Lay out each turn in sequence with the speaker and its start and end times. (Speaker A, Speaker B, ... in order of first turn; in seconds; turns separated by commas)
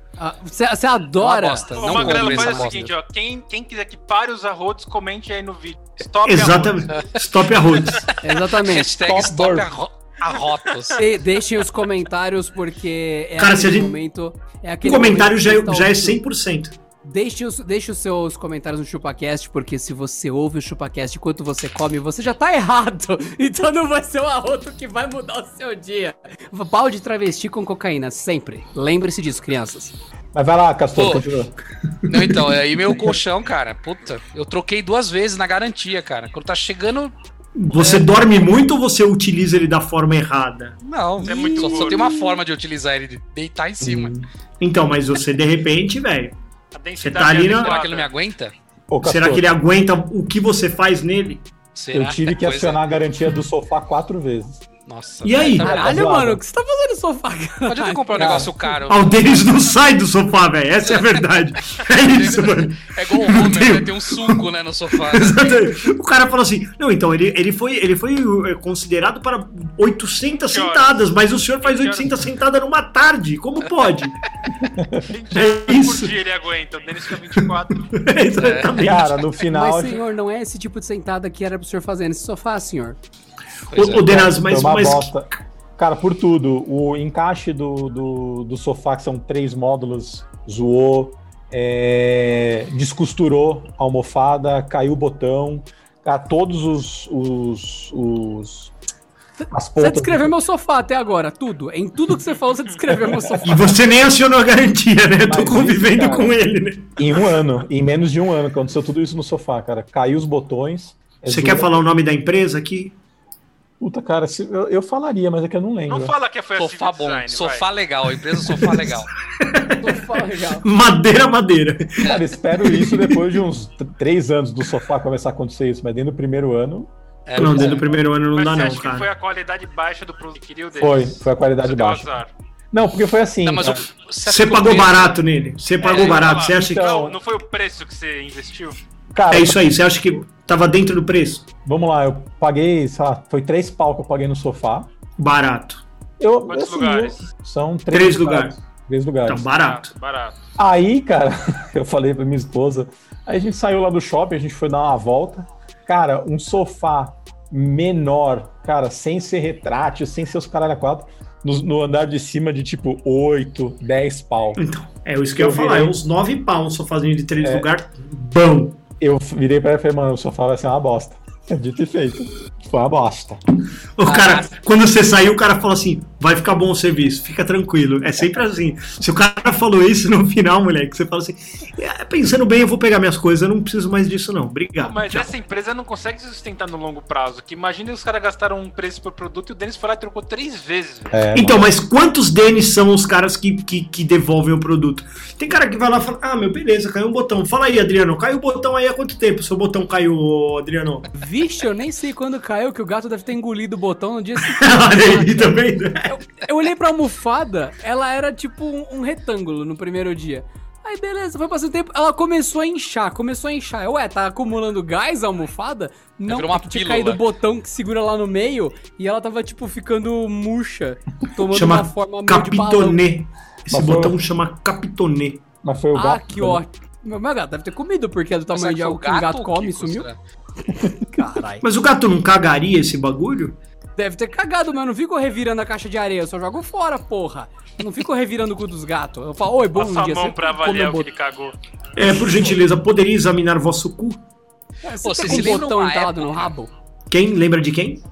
Speaker A: 0.2-2.6, Speaker B: 1.2-2.9, Speaker C: 1.7-6.9, Speaker D: 6.2-8.1, Speaker B: 6.9-7.2, Speaker B: 7.8-11.0, Speaker A: 8.2-8.9, Speaker E: 9.0-9.7, Speaker A: 11.0-16.2, Speaker D: 13.4-14.0, Speaker D: 14.8-16.7, Speaker A: 17.0-29.9, Speaker E: 30.3-31.5, Speaker B: 30.9-31.2, Speaker B: 32.1-37.1, Speaker D: 37.6-40.8, Speaker B: 37.8-38.1, Speaker B: 40.8-44.1, Speaker C: 41.2-42.1, Speaker E: 43.8-44.2, Speaker D: 44.6-46.3, Speaker C: 46.7-48.1, Speaker D: 47.0-47.8, Speaker B: 47.5-48.5, Speaker E: 48.9-49.5, Speaker D: 49.0-51.4, Speaker B: 51.7-52.8, Speaker E: 51.9-54.6, Speaker B: 54.9-56.0, Speaker D: 55.2-55.9, Speaker A: 55.6-58.5, Speaker E: 55.7-56.4, Speaker B: 57.6-59.3, Speaker E: 58.2-58.5, Speaker D: 58.9-64.4, Speaker B: 60.8-61.2, Speaker B: 61.7-65.4, Speaker D: 65.1-74.2, Speaker C: 70.4-72.1, Speaker E: 74.8-75.1, Speaker C: 75.1-77.9, Speaker D: 75.3-76.2, Speaker D: 77.9-79.1, Speaker B: 78.4-79.1, Speaker E: 78.8-80.0, Speaker A: 79.5-83.0, Speaker B: 83.7-84.2, Speaker D: 83.7-85.1, Speaker E: 83.9-98.7, Speaker E: 99.5-100.3, Speaker A: 99.8-103.7, Speaker D: 103.4-106.9, Speaker E: 105.2-106.4, Speaker E: 107.0-111.8, Speaker D: 111.3-112.9, Speaker E: 113.8-116.1, Speaker C: 115.9-117.7, Speaker B: 116.6-119.1, Speaker D: 118.3-123.2, Speaker A: 119.7-120.7, Speaker E: 122.0-127.7, Speaker B: 127.2-128.0, Speaker D: 127.3-129.1, Speaker C: 128.3-132.3, Speaker E: 130.8-132.1, Speaker E: 132.7-133.8, Speaker B: 133.4-135.2, Speaker D: 134.2-136.9, Speaker C: 135.8-138.8, Speaker B: 135.8-136.3, Speaker E: 136.4-137.2, Speaker E: 139.1-139.6, Speaker D: 139.3-141.4, Speaker E: 141.6-144.9, Speaker D: 145.2-145.8, Speaker E: 146.2-149.5, Speaker C: 146.5-147.2, Speaker D: 147.9-148.5, Speaker D: 149.3-149.9, Speaker C: 149.5-150.3, Speaker E: 150.6-164.6, Speaker D: 164.6-168.8, Speaker E: 165.3-166.0, Speaker E: 167.4-167.7, Speaker E: 169.0-173.4, Speaker D: 174.0-185.3, Speaker B: 174.0-174.4, Speaker C: 184.8-191.1, Speaker E: 191.1-191.7, Speaker D: 191.3-201.1, Speaker A: 201.1-223.0, Speaker D: 204.4-206.1, Speaker B: 216.3-217.2, Speaker D: 221.5-225.4, Speaker E: 223.7-224.2, Speaker E: 225.6-226.6, Speaker A: 225.9-230.1, Speaker B: 228.5-230.2, Speaker E: 230.8-231.1, Speaker A: 231.1-231.6, Speaker D: 231.6-233.6, Speaker A: 234.0-241.1, Speaker C: 239.7-241.6, Speaker D: 241.9-244.2, Speaker A: 244.8-246.7, Speaker B: 245.0-246.5, Speaker D: 247.1-248.0